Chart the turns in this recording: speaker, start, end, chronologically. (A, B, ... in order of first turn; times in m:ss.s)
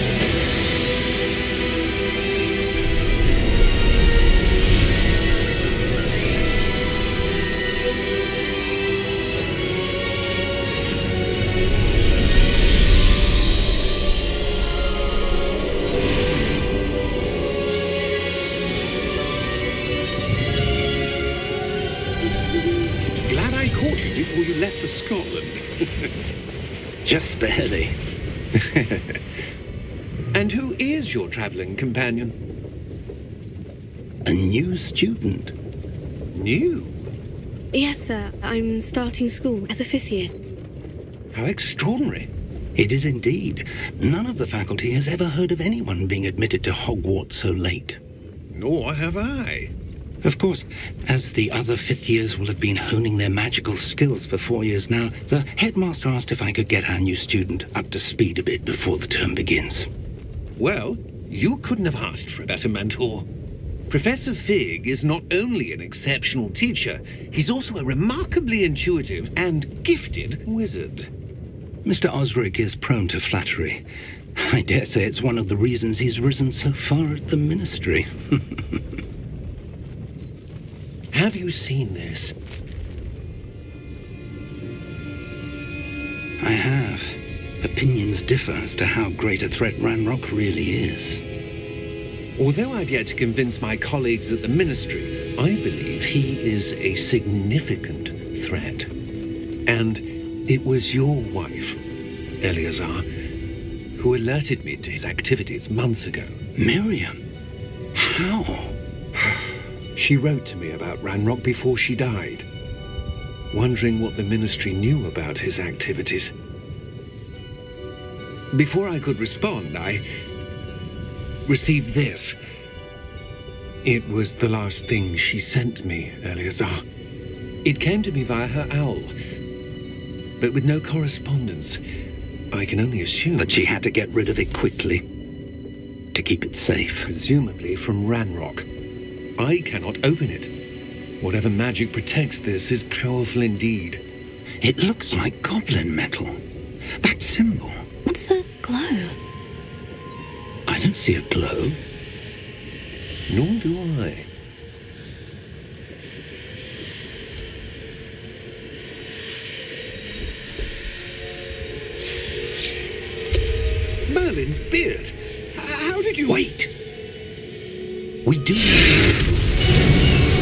0:23.3-0:26.1 A
0:27.0-0:28.0 B
0:28.5-0:29.2 A
0:30.3-0:32.4 A
0:34.2-0:35.5 B
0:36.3-0:37.1 A
0:37.7-0:40.3 C
0:41.3-0:42.3 A
0:42.7-0:48.0 B
0:48.5-0:49.7 A
0:50.2-0:59.9 B
1:00.6-1:03.3 A
1:03.9-1:11.1 A
1:11.8-1:13.8 B
1:14.4-1:18.8 B
1:21.1-1:22.3 A
1:26.4-1:31.2 B
1:32.4-1:38.9 A
1:39.7-1:41.8 A
1:42.4-1:43.0 A
1:44.0-1:46.4 A
1:46.6-1:47.2 B
1:47.9-1:48.8 B
1:49.9-1:52.5 A
1:53.5-1:56.3 A
1:58.5-2:00.0 A
2:01.4-2:02.4 A
2:03.8-2:06.8 A
2:07.6-2:09.1 A
2:10.4-2:11.8 A
2:12.5-2:13.6 A
2:13.4-2:15.0 B
2:16.1-2:17.1 B
2:17.0-2:18.6 A
2:19.4-2:20.5 A
2:21.2-2:24.0 A
2:24.6-2:26.4 B
2:27.0-2:27.8 B
2:28.0-2:29.2 C
2:30.7-2:31.8 B
2:33.3-2:34.3 A
2:44.1-2:46.4 A
2:46.2-2:46.7 B
2:48.2-2:49.1 B